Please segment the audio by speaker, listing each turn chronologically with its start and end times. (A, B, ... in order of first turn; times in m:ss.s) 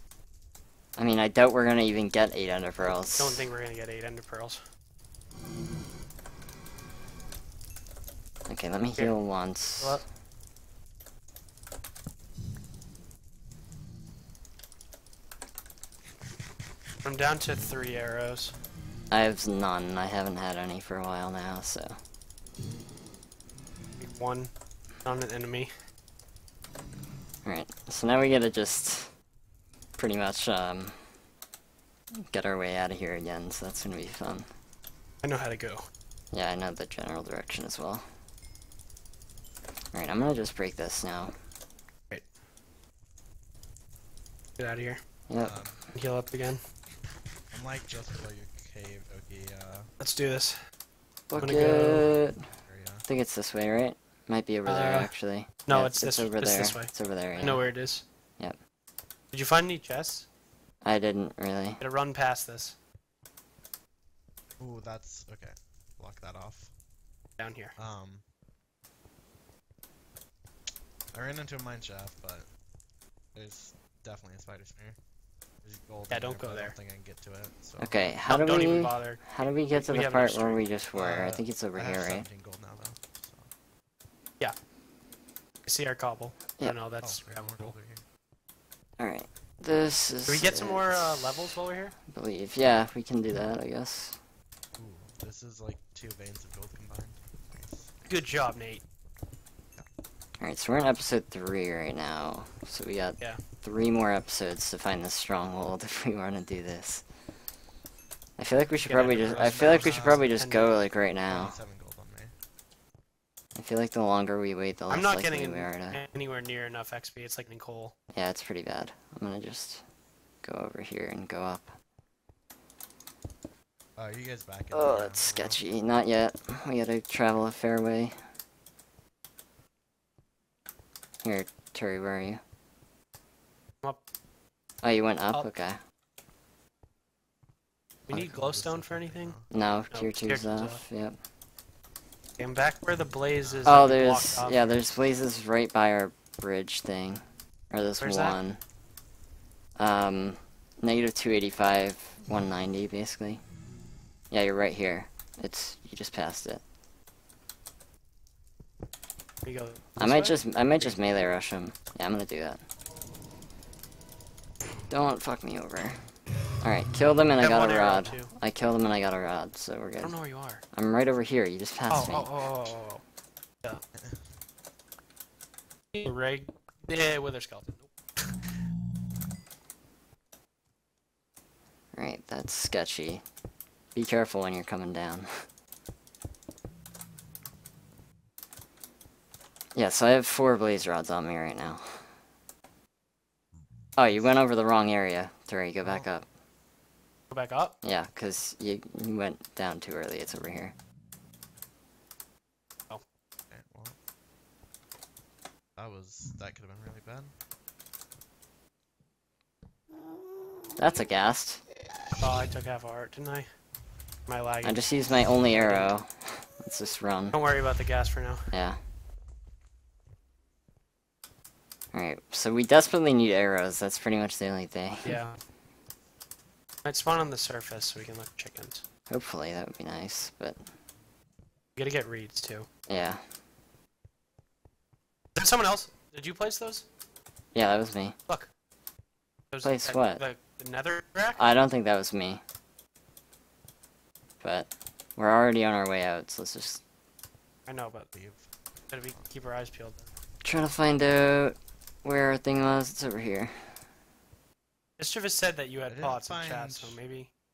0:01.0-0:03.5 A
0:02.8-0:04.6 B
0:08.5-0:10.0 A
0:08.9-0:10.0 B
0:17.0-0:18.6 B
0:19.1-0:21.9 A
0:24.0-0:25.7 B
0:27.4-0:29.2 A
0:30.0-0:31.0 A
0:32.3-0:34.5 A
0:35.2-0:35.8 B
0:36.3-0:38.0 A
0:39.9-0:41.3 A
0:44.6-0:45.0 B
0:45.3-0:45.6 A
0:45.4-0:45.9 C
0:45.9-0:46.6 B
0:47.5-0:49.9 C
0:50.0-0:50.6 B
0:51.3-0:52.4 A
0:51.3-0:53.0 C
0:51.4-0:52.2 B
0:53.0-0:57.7 A
0:54.6-0:58.0 B
0:57.3-0:57.6 C
0:59.3-1:00.3 B
1:00.8-1:01.8 A
1:01.8-1:02.8 B
1:04.6-1:06.7 C
1:07.4-1:07.7 B
1:07.7-1:08.2 C
1:11.1-1:12.6 C
1:13.3-1:15.0 C
1:15.6-1:18.1 C
1:16.1-1:16.8 B
1:17.8-1:22.3 A
1:18.2-1:20.6 B
1:20.9-1:23.5 C
1:25.6-1:27.7 B
1:27.0-1:28.0 C
1:29.0-1:31.6 A
1:30.3-1:31.9 B
1:32.1-1:34.2 A
1:34.8-1:37.9 C
1:38.0-1:38.8 B
1:40.4-1:47.0 A
1:48.4-1:51.5 A
1:48.8-1:50.8 B
1:49.2-1:50.4 C
1:51.2-1:52.3 C
1:53.5-1:56.0 A
1:54.9-1:57.9 B
1:58.1-1:59.8 A
2:00.4-2:01.7 A
2:04.0-2:05.6 C
2:04.7-2:08.2 A
2:11.2-2:12.4 A
2:14.8-2:15.8 A
2:18.1-2:19.5 C
2:18.1-2:19.4 B
2:19.5-2:21.2 A
2:19.9-2:20.8 B
2:22.4-2:24.7 B
2:23.3-2:23.9 C
2:23.6-2:28.6 A
2:28.0-2:28.4 B
2:29.8-2:33.4 A
2:34.3-2:36.6 A
2:39.4-2:40.9 B
2:40.0-2:42.6 A
2:44.9-2:52.3 A
2:47.4-2:48.3 B
2:50.0-2:50.6 B
2:51.9-2:53.0 B
2:54.0-2:54.3 C
2:55.9-2:58.5 B
3:01.9-3:03.2 A
3:03.9-3:05.4 A
3:09.7-3:12.1 A
3:14.0-3:16.2 A
3:15.8-3:16.1 C
3:17.3-3:17.8 B
3:17.8-3:20.7 A
3:23.5-3:24.0 C
3:25.8-3:27.3 C
3:30.8-3:31.6 A
3:32.2-3:33.5 B
3:34.2-3:35.9 B
3:34.6-3:37.4 A
3:37.3-3:38.5 B
3:38.5-3:38.8 A
3:41.9-3:45.2 A
3:45.0-3:45.4 B
3:46.8-3:48.8 B
3:49.1-3:50.6 A
3:51.8-3:52.7 B
3:52.9-3:53.2 A
3:55.3-3:56.8 B
3:57.5-3:58.2 A
3:59.5-4:01.5 B
3:59.6-4:00.2 A
4:01.4-4:02.4 A
4:04.4-4:06.8 A
4:07.6-4:08.1 B
4:08.1-4:08.5 C
4:08.9-4:10.1 B
4:10.4-4:13.8 A
4:15.0-4:17.3 B
4:15.8-4:17.0 C